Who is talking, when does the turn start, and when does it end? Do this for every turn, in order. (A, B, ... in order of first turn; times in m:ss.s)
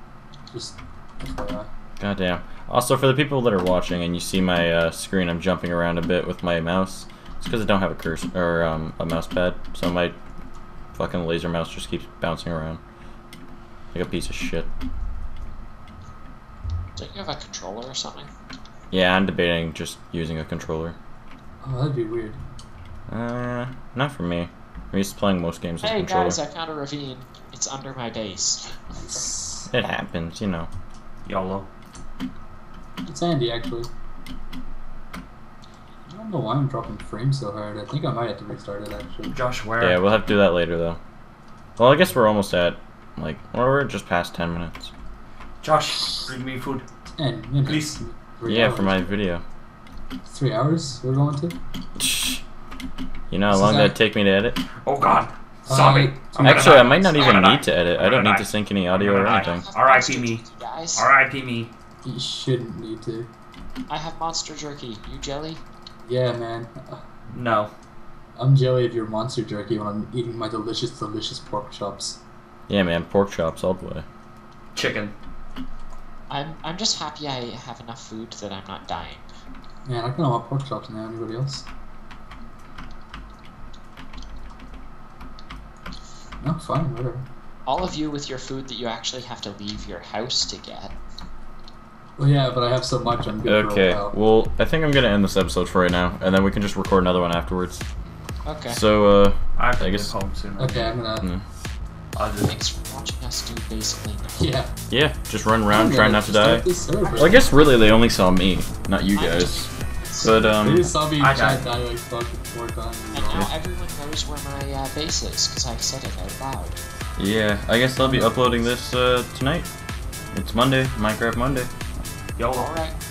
0:00.5-0:01.7 A
0:02.0-0:10.2 B
0:10.9-0:12.8 B
0:13.9-0:14.7 B
0:17.0-0:18.3 C
0:18.9-0:21.0 B
0:21.6-0:22.4 A
0:23.1-0:26.4 B
0:25.8-0:28.7 C
0:28.9-0:29.7 A
0:29.7-0:30.7 B
0:31.2-0:31.7 D
0:33.0-0:33.9 A
0:36.1-0:39.4 A
0:39.3-0:40.0 D
0:39.8-0:41.0 B
0:41.8-0:44.9 B
0:45.6-0:46.8 D
0:47.2-0:49.2 A
0:47.6-0:48.0 D
0:48.4-0:49.4 B
0:50.2-0:51.5 A
0:52.0-0:52.4 B
0:53.3-0:54.6 B
0:53.5-0:54.0 A
0:54.8-1:00.4 D
0:55.7-0:57.0 A
0:56.4-0:59.6 B
0:59.3-1:01.1 C
1:00.9-1:01.7 D
1:02.0-1:03.3 A
1:03.9-1:05.6 C
1:06.0-1:07.0 A
1:07.3-1:07.7 D
1:08.4-1:12.2 A
1:12.7-1:14.0 B
1:14.7-1:15.1 D
1:16.3-1:19.3 C
1:19.8-1:21.6 A
1:26.4-1:27.2 A
1:27.6-1:31.0 C
1:32.2-1:34.1 A
1:33.4-1:37.8 B
1:38.4-1:38.8 C
1:38.7-1:40.1 B
1:39.6-1:40.9 D
1:40.6-1:41.3 A
1:42.1-1:42.6 D
1:42.4-1:44.5 C
1:44.4-1:44.7 A
1:44.9-1:50.9 B
1:45.7-1:47.4 A
1:47.0-1:47.6 C
1:49.1-1:50.6 C
1:50.3-1:53.5 A
1:51.1-1:51.7 D
1:53.1-1:56.8 C
1:57.2-1:59.7 B
1:58.0-1:58.7 A
2:00.3-2:01.7 B
2:02.4-2:02.7 D
2:02.5-2:02.9 C